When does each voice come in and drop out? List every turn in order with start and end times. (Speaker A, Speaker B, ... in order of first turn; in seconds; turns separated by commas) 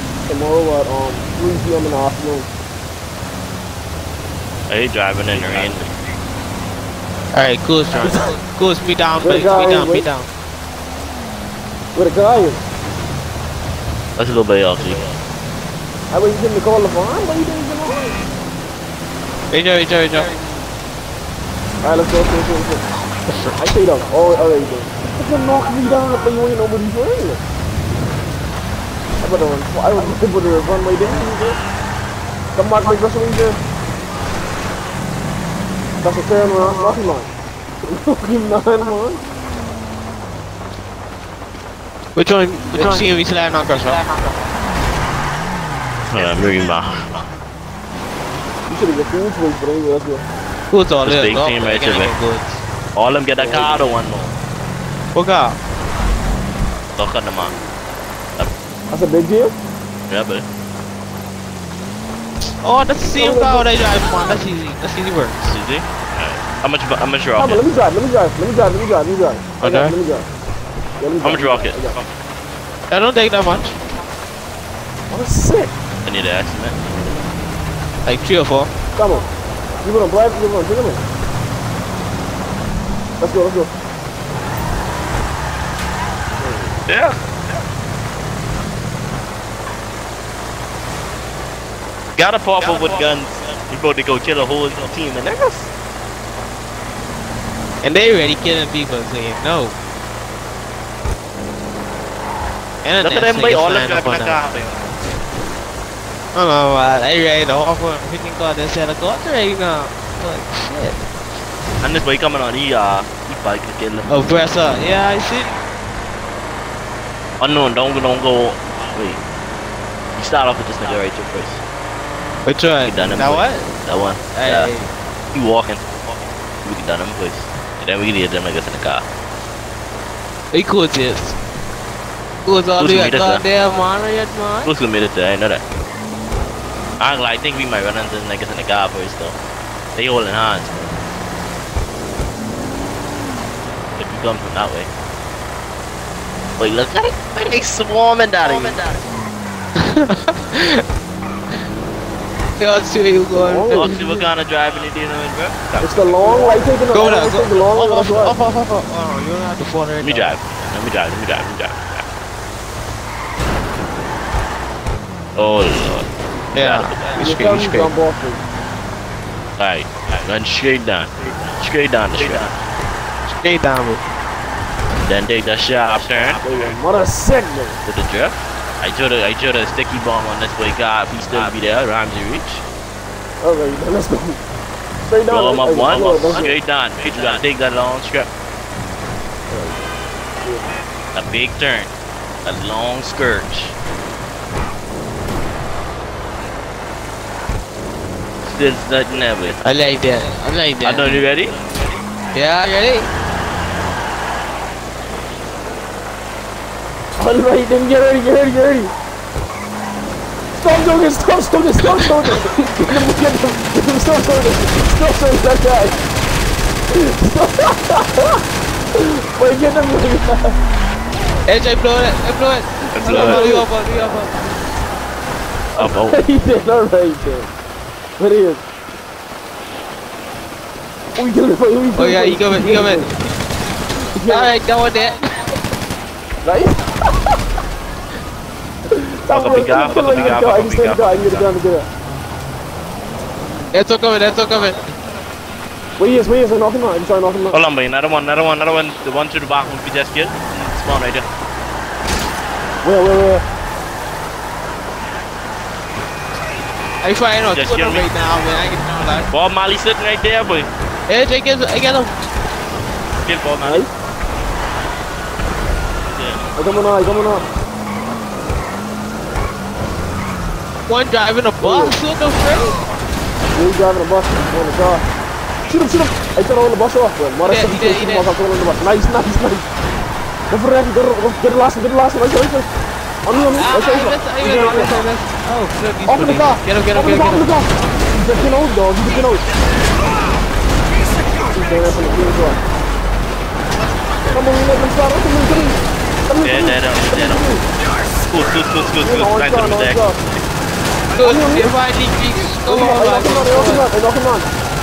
Speaker A: 0.3-2.5, Speaker B: 4.7-5.9, Speaker C: 7.3-10.3, Speaker A: 8.0-8.3, Speaker A: 9.2-10.1, Speaker A: 11.9-12.6, Speaker B: 14.2-15.2, Speaker A: 16.1-18.2, Speaker C: 19.5-20.3, Speaker A: 21.8-22.8, Speaker A: 23.6-27.4, Speaker A: 29.2-31.6, Speaker A: 32.5-33.6, Speaker A: 36.0-37.3, Speaker A: 37.8-39.2, Speaker C: 42.1-44.0, Speaker B: 46.1-47.2, Speaker A: 48.7-50.2, Speaker C: 50.7-52.6, Speaker B: 51.0-52.1, Speaker B: 52.9-54.3, Speaker A: 53.3-53.9, Speaker C: 55.1-55.6, Speaker B: 57.0-57.5, Speaker A: 58.9-59.5, Speaker B: 60.1-60.4, Speaker C: 62.6-65.6, Speaker A: 63.2-63.7, Speaker B: 65.5-67.8, Speaker A: 67.3-70.3, Speaker C: 69.6-69.9, Speaker A: 71.0-72.0, Speaker B: 71.2-72.1, Speaker C: 72.9-73.8, Speaker A: 75.1-75.7, Speaker B: 76.0-76.8, Speaker C: 78.0-78.7, Speaker A: 78.9-79.3, Speaker A: 79.8-81.0, Speaker A: 83.2-83.7, Speaker B: 86.8-87.2, Speaker B: 92.2-95.7, Speaker C: 97.8-99.7, Speaker C: 102.8-104.5, Speaker B: 103.0-104.8, Speaker C: 106.3-111.0, Speaker B: 111.8-114.3, Speaker C: 114.1-115.6, Speaker B: 117.4-119.2, Speaker B: 120.2-121.6, Speaker C: 122.4-123.7, Speaker B: 122.8-124.7, Speaker C: 124.2-124.9, Speaker B: 125.3-129.0, Speaker C: 130.5-131.4, Speaker C: 132.4-134.7, Speaker B: 132.8-133.4, Speaker B: 134.6-135.6, Speaker B: 137.0-139.4, Speaker B: 139.9-140.8, Speaker B: 144.0-144.9, Speaker B: 146.6-149.0, Speaker C: 149.8-150.8, Speaker C: 152.6-154.2, Speaker A: 153.3-153.9, Speaker B: 153.7-156.6, Speaker A: 155.8-158.4, Speaker C: 156.9-160.3, Speaker B: 160.0-162.0, Speaker B: 165.3-167.3, Speaker C: 166.5-167.9, Speaker A: 167.1-168.4, Speaker B: 169.6-172.5, Speaker C: 173.3-174.0, Speaker B: 175.0-176.8, Speaker A: 176.0-177.8, Speaker B: 177.8-182.6, Speaker A: 183.4-184.4, Speaker A: 185.1-186.6, Speaker B: 185.3-188.3, Speaker A: 189.5-189.9, Speaker A: 190.4-190.7, Speaker B: 191.1-191.9, Speaker B: 192.4-193.7, Speaker B: 198.4-199.6, Speaker C: 199.6-201.2, Speaker B: 200.8-201.6, Speaker C: 202.3-203.1, Speaker A: 207.2-208.9, Speaker A: 210.5-216.0, Speaker C: 212.0-212.3, Speaker A: 216.9-218.4, Speaker A: 218.9-220.6, Speaker C: 221.4-224.4, Speaker B: 222.9-223.4, Speaker A: 222.9-223.7, Speaker B: 225.8-226.2, Speaker A: 225.8-227.5, Speaker A: 228.2-228.6, Speaker A: 231.1-233.1, Speaker C: 231.9-233.1, Speaker A: 234.1-234.5, Speaker C: 234.2-235.2, Speaker A: 236.4-237.3, Speaker A: 238.9-241.9, Speaker B: 239.3-241.5, Speaker C: 243.7-244.9, Speaker A: 246.0-247.6, Speaker B: 247.5-251.3, Speaker A: 252.8-253.4, Speaker C: 257.0-259.3, Speaker B: 257.5-258.0, Speaker B: 259.3-260.7, Speaker C: 261.1-262.1, Speaker B: 263.2-263.9, Speaker A: 263.6-263.9, Speaker B: 266.1-266.5, Speaker A: 266.6-267.4, Speaker C: 270.9-272.8, Speaker A: 271.6-271.9, Speaker A: 273.5-275.0, Speaker A: 275.7-279.7, Speaker C: 277.4-278.3, Speaker A: 280.5-282.7, Speaker A: 283.2-285.0, Speaker C: 283.5-287.4, Speaker A: 286.1-289.4, Speaker A: 291.5-292.6, Speaker A: 294.3-297.6, Speaker B: 296.4-297.4, Speaker B: 298.3-300.1, Speaker A: 299.0-300.2, Speaker C: 301.1-303.8, Speaker A: 301.2-301.7, Speaker A: 302.7-304.5